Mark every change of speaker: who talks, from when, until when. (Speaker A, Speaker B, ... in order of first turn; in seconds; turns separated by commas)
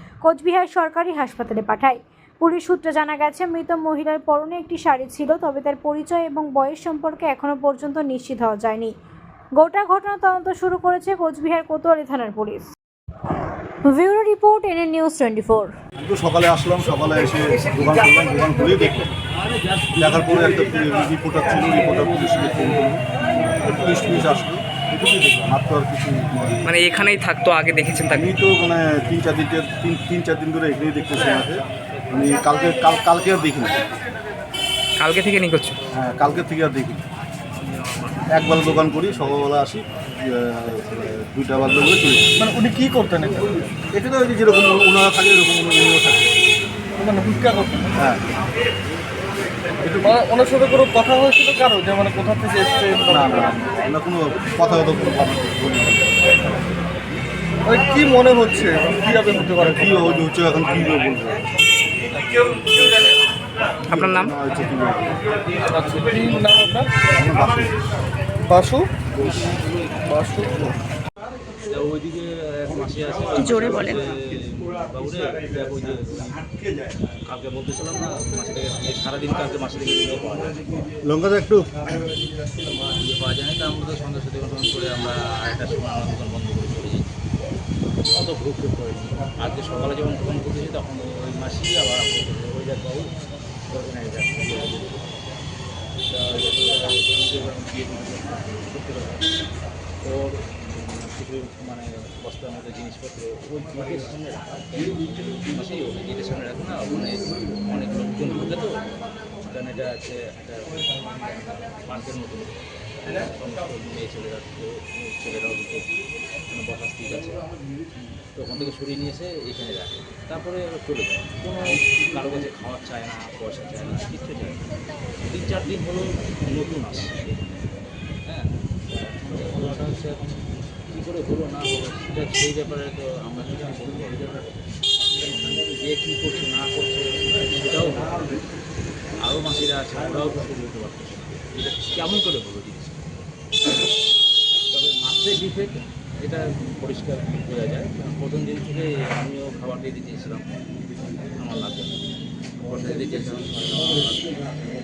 Speaker A: 0.2-8.9, Speaker A: 9.6-12.7, Speaker A: 13.8-15.7, Speaker B: 16.0-19.1, Speaker C: 19.4-20.6, Speaker B: 20.0-23.0, Speaker C: 21.7-22.9, Speaker B: 23.6-26.6, Speaker D: 26.6-28.4, Speaker B: 28.1-33.9, Speaker C: 31.4-32.7, Speaker D: 35.0-35.8, Speaker B: 35.9-37.0, Speaker C: 37.6-39.3, Speaker B: 38.3-42.3, Speaker E: 42.4-43.6, Speaker B: 43.9-46.3, Speaker E: 47.0-48.0, Speaker B: 48.0-48.2, Speaker B: 49.8-50.1, Speaker E: 50.0-53.5, Speaker B: 53.1-56.4, Speaker E: 57.6-60.2, Speaker B: 59.6-61.4, Speaker C: 62.3-63.1, Speaker D: 63.9-64.3, Speaker B: 63.9-65.2, Speaker C: 65.2-66.7, Speaker E: 65.7-66.9, Speaker B: 67.1-67.8, Speaker E: 68.5-68.9, Speaker C: 69.1-70.7, Speaker E: 70.1-70.7, Speaker C: 71.7-76.5, Speaker C: 77.2-81.0, Speaker B: 81.0-81.9, Speaker C: 82.9-87.2, Speaker C: 88.1-93.1, Speaker C: 93.7-95.1, Speaker C: 96.1-99.3, Speaker C: 100.0-115.9, Speaker C: 116.5-117.4, Speaker C: 118.3-124.6, Speaker C: 125.2-127.4, Speaker C: 128.2-138.5, Speaker C: 139.2-143.1, Speaker C: 144.7-150.5, Speaker C: 151.4-152.0, Speaker C: 152.6-154.4